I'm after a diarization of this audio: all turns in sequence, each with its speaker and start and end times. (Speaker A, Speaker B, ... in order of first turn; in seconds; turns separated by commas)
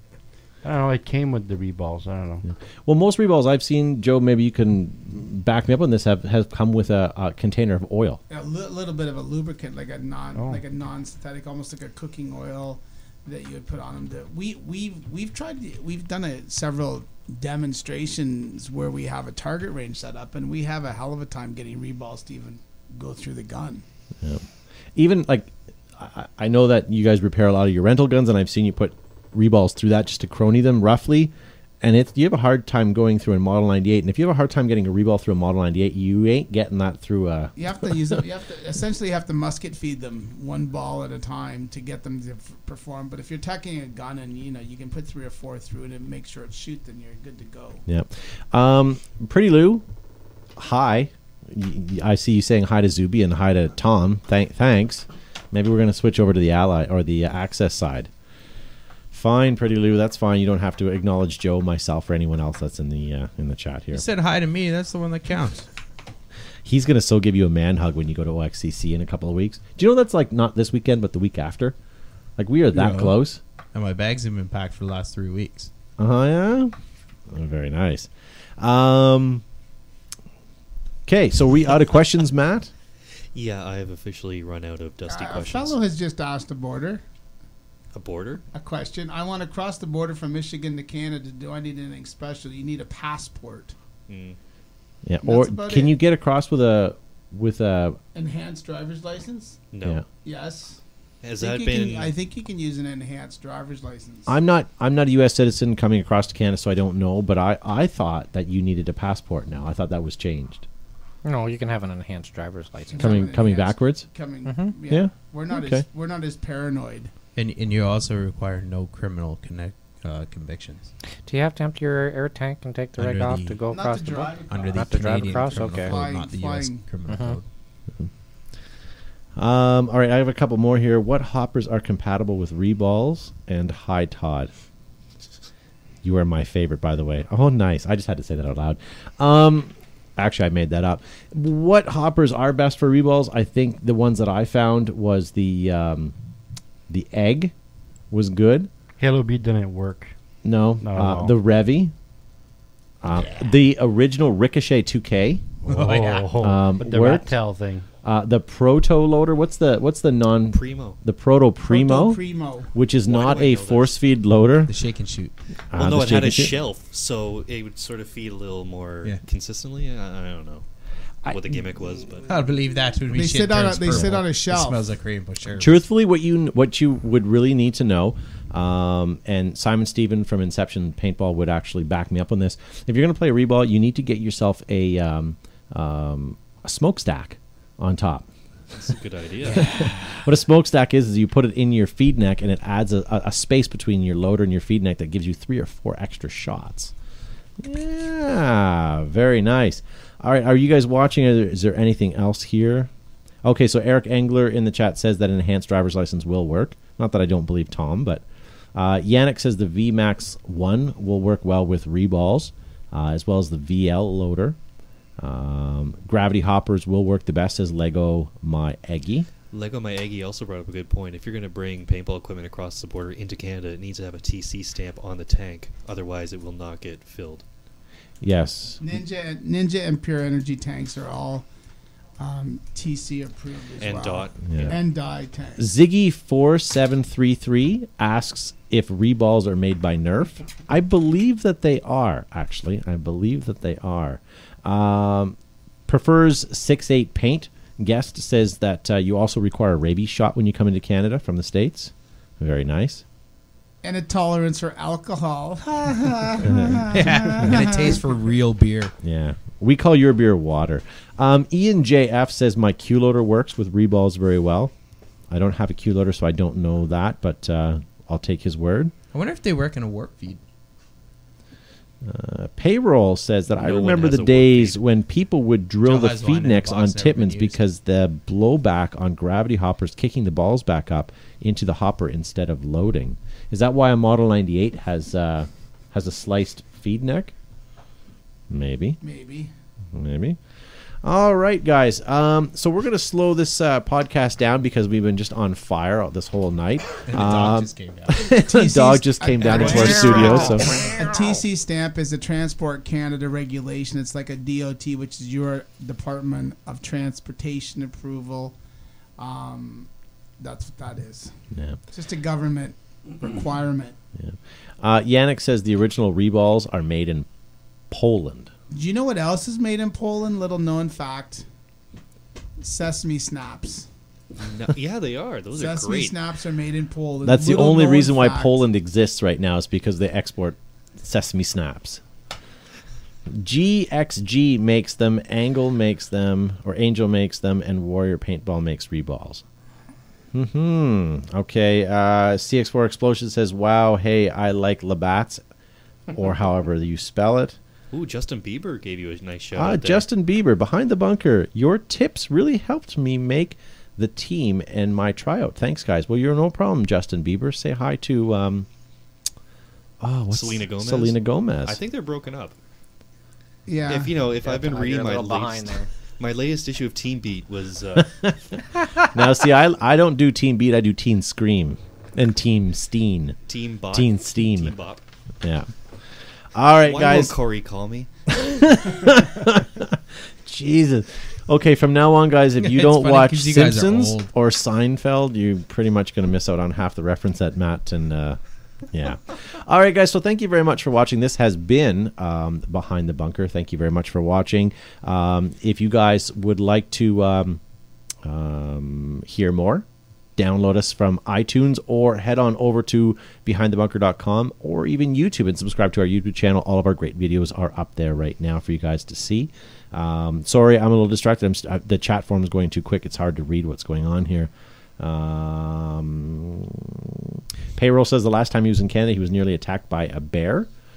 Speaker A: 0.6-2.5, Speaker B: 2.5-8.2, Speaker C: 8.3-23.8, Speaker A: 10.3-10.6, Speaker B: 25.0-37.5, Speaker C: 37.6-47.8, Speaker B: 47.9-49.8, Speaker B: 50.6-58.1, Speaker B: 59.1-64.0, Speaker D: 63.9-65.7, Speaker B: 66.7-71.8, Speaker B: 72.4-73.4, Speaker D: 72.7-73.2, Speaker D: 73.7-75.7, Speaker B: 76.0-76.7, Speaker B: 77.3-79.4, Speaker B: 81.1-82.7, Speaker E: 83.3-85.8, Speaker C: 85.1-87.0, Speaker E: 87.9-88.4, Speaker C: 88.5-93.8, Speaker E: 94.1-94.4, Speaker B: 95.1-98.0, Speaker C: 95.2-96.0, Speaker C: 98.1-99.6, Speaker E: 99.7-100.0, Speaker C: 100.2-100.8, Speaker E: 101.2-102.2, Speaker C: 101.4-104.3, Speaker B: 104.3-110.7, Speaker F: 111.2-113.3, Speaker C: 112.9-117.1, Speaker B: 113.0-114.1, Speaker F: 114.4-114.8, Speaker B: 114.9-115.8, Speaker D: 117.4-120.9, Speaker F: 121.3-126.0, Speaker D: 123.0-123.6, Speaker C: 123.7-126.9, Speaker D: 124.5-127.4, Speaker F: 127.1-127.4, Speaker B: 129.4-134.5, Speaker B: 136.0-146.1, Speaker B: 146.9-147.5, Speaker B: 148.1-148.7, Speaker A: 149.0-150.1, Speaker B: 150.4-151.9, Speaker A: 150.8-151.4, Speaker B: 153.0-155.6, Speaker A: 155.7-157.9, Speaker D: 155.7-156.4, Speaker B: 156.4-157.3, Speaker B: 158.0-162.2, Speaker E: 160.5-161.0, Speaker C: 161.6-162.8, Speaker B: 162.7-164.7, Speaker E: 163.1-164.0, Speaker D: 164.7-165.3, Speaker B: 165.7-166.6, Speaker E: 165.7-170.7, Speaker E: 171.3-172.3, Speaker D: 172.3-175.8, Speaker C: 173.1-174.9, Speaker B: 175.6-188.3, Speaker E: 188.7-189.9, Speaker B: 189.5-196.9, Speaker B: 197.6-202.9, Speaker B: 203.4-214.6, Speaker B: 215.2-219.3, Speaker E: 219.5-227.4, Speaker B: 228.2-228.9, Speaker C: 228.8-231.4, Speaker C: 232.2-235.7, Speaker E: 233.8-234.8, Speaker B: 234.5-234.8, Speaker B: 235.6-245.4, Speaker B: 245.9-253.0, Speaker C: 253.8-258.0, Speaker D: 256.9-258.9, Speaker B: 259.0-264.7, Speaker B: 265.3-268.9, Speaker D: 269.1-270.4, Speaker B: 272.0-287.3, Speaker E: 273.6-274.8, Speaker D: 275.8-277.6, Speaker B: 288.5-289.0, Speaker C: 289.0-289.5, Speaker B: 289.9-290.4, Speaker B: 291.0-300.8, Speaker D: 297.1-298.4, Speaker C: 298.3-308.6, Speaker F: 299.8-301.4, Speaker C: 309.2-311.3, Speaker C: 311.9-314.0, Speaker B: 314.2-317.3, Speaker B: 317.9-318.5, Speaker C: 318.7-321.4, Speaker C: 322.6-323.9, Speaker E: 324.4-326.2, Speaker C: 325.5-328.6, Speaker B: 327.2-332.0, Speaker B: 333.3-339.4, Speaker B: 340.3-345.4, Speaker B: 346.1-347.6, Speaker E: 347.9-350.1, Speaker B: 349.5-358.7, Speaker B: 360.0-361.8, Speaker E: 360.3-362.6, Speaker C: 363.7-364.3, Speaker E: 363.9-368.3, Speaker F: 364.4-365.9, Speaker B: 369.1-373.4, Speaker E: 373.5-375.0, Speaker B: 373.9-374.7, Speaker B: 375.4-375.7, Speaker B: 376.6-377.4, Speaker E: 376.8-378.1, Speaker B: 378.3-388.4, Speaker D: 382.6-384.3, Speaker B: 388.9-397.6, Speaker B: 398.2-399.9, Speaker B: 400.4-420.7